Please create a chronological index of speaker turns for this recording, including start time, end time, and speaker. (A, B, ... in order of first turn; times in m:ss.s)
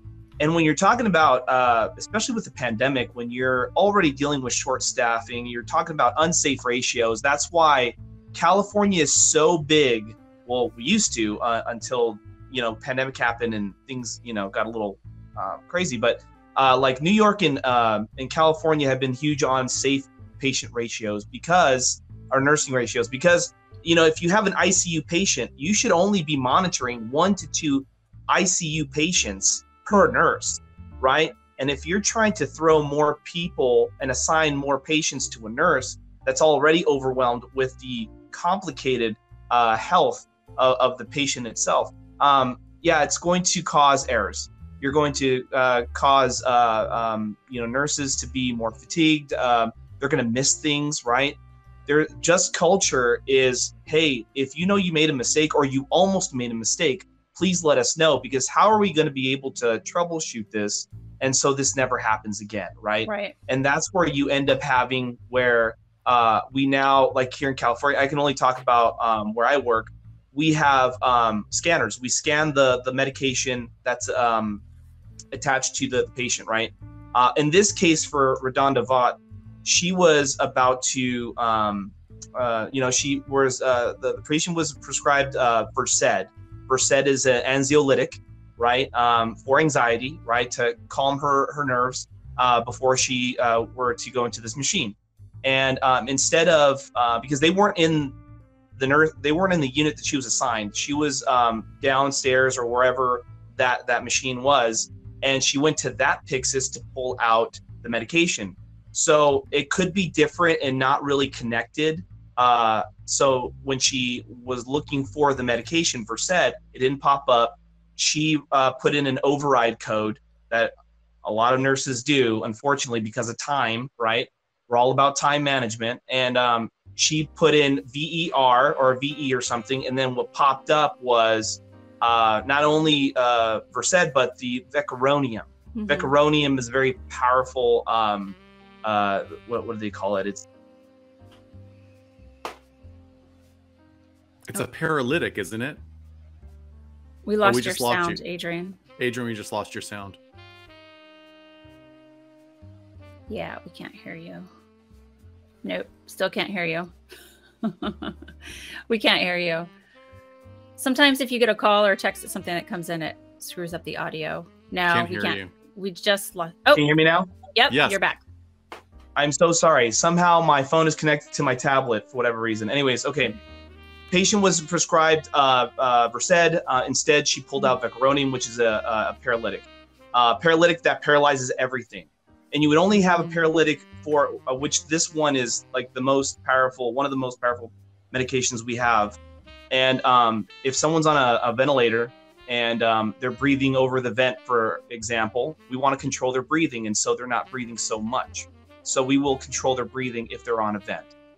0:00.4-1:14.6 A
1:03.0-1:03.4 B
1:15.3-1:38.2 A
1:38.8-2:20.5 A
2:15.8-2:16.1 B
2:24.5-2:25.8 C
2:27.2-2:28.8 B
2:27.4-2:28.2 C
2:29.0-2:30.2 C
2:33.3-2:34.5 B
2:35.6-2:36.9 B
2:37.6-2:38.2 B
2:38.9-2:39.7 B
2:40.8-2:46.8 B
2:44.9-2:45.5 C
2:46.7-2:47.3 A
2:47.4-2:48.2 B
2:47.7-2:48.0 C
2:49.2-2:53.4 A
2:54.1-3:09.2 A
3:09.7-3:21.1 A